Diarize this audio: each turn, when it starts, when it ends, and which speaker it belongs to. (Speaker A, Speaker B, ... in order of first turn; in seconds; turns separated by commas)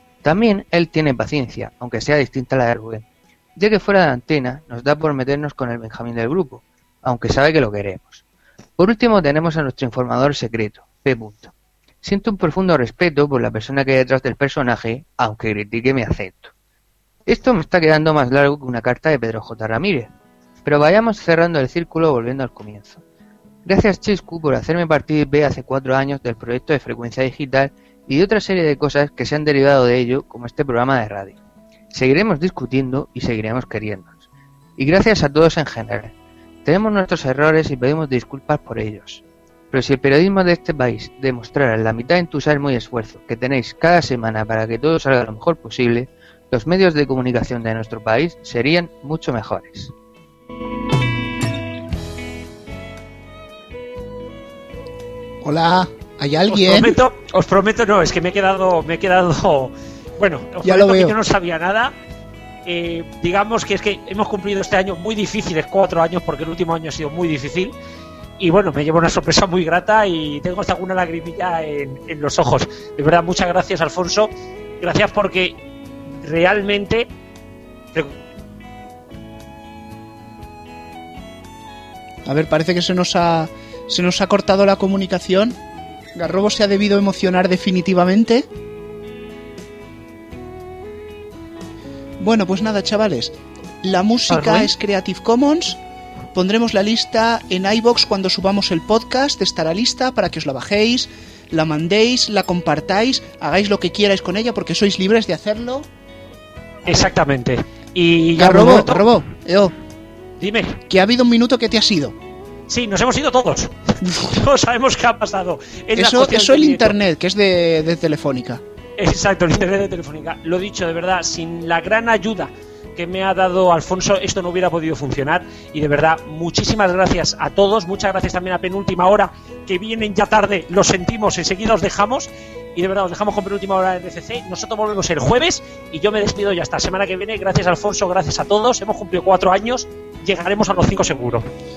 Speaker A: 0.2-8.2, Speaker A: 8.8-11.5, Speaker A: 12.0-16.5, Speaker A: 17.3-20.1, Speaker A: 20.6-23.0, Speaker A: 23.6-31.4, Speaker A: 31.9-34.2, Speaker A: 34.8-36.1, Speaker A: 36.6-49.9, Speaker B: 55.4-57.0, Speaker C: 56.5-61.9, Speaker B: 60.6-61.2, Speaker C: 62.7-67.7, Speaker C: 68.4-75.6, Speaker C: 76.1-77.1, Speaker B: 82.3-85.6, Speaker B: 86.2-88.5, Speaker B: 92.2-95.8, Speaker C: 94.3-94.7, Speaker B: 96.3-105.9, Speaker C: 106.9-109.1, Speaker B: 108.4-109.7, Speaker C: 110.4-110.8, Speaker B: 110.9-112.2, Speaker C: 112.7-116.9, Speaker B: 116.0-118.6, Speaker C: 119.0-141.5